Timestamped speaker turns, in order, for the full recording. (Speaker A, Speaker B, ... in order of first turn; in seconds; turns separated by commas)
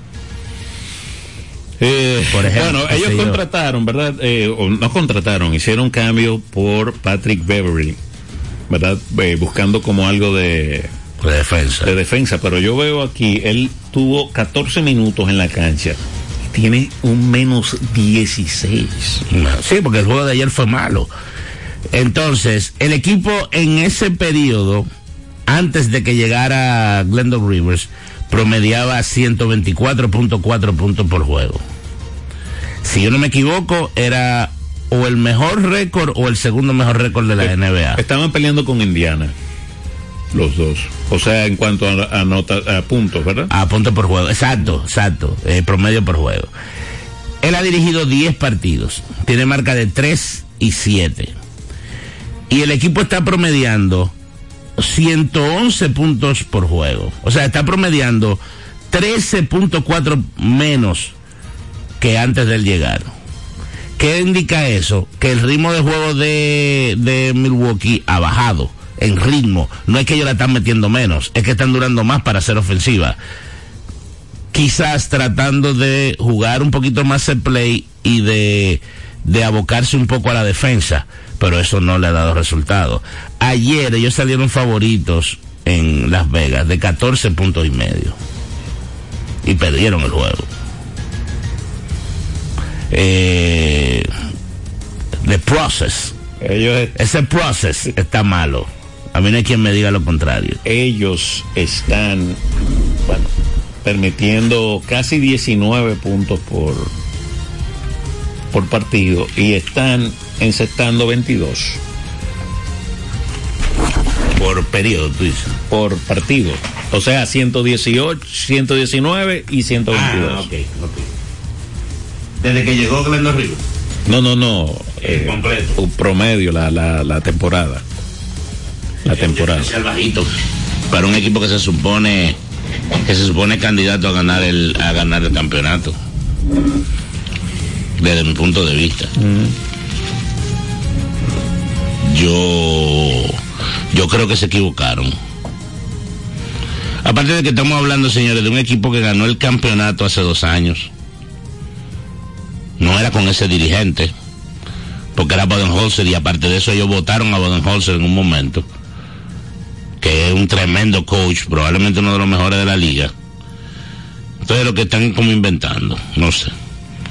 Speaker A: 1.8-8.0, Speaker B: 2.3-3.4, Speaker A: 8.7-10.9, Speaker B: 11.2-11.9, Speaker A: 11.8-19.2, Speaker B: 19.3-21.1, Speaker B: 21.9-24.9, Speaker B: 25.5-31.6, Speaker B: 32.8-38.0, Speaker A: 37.4-39.3, Speaker A: 40.3-43.5, Speaker B: 43.5-46.5, Speaker B: 47.4-51.3, Speaker B: 52.5-54.1, Speaker B: 54.8-61.1, Speaker B: 62.0-63.1, Speaker B: 64.0-73.2, Speaker B: 74.5-88.2, Speaker B: 89.4-90.5, Speaker B: 92.9-94.1, Speaker B: 95.2-96.1, Speaker A: 96.4-97.0, Speaker B: 97.0-100.6, Speaker A: 100.6-102.4, Speaker A: 103.0-103.3, Speaker A: 103.8-106.9, Speaker A: 108.5-111.8, Speaker B: 114.3-115.5, Speaker A: 115.7-120.5, Speaker B: 119.9-121.1, Speaker B: 122.4-123.6, Speaker A: 124.1-127.8, Speaker B: 125.0-125.8, Speaker A: 129.0-129.7, Speaker B: 129.1-130.3, Speaker B: 130.9-132.4, Speaker B: 133.0-136.0, Speaker B: 138.0-139.1, Speaker A: 139.2-139.5, Speaker B: 142.0-143.4, Speaker B: 143.9-145.2, Speaker B: 147.0-150.9, Speaker B: 152.8-154.1, Speaker B: 155.1-158.7, Speaker B: 160.0-163.1, Speaker B: 164.4-166.5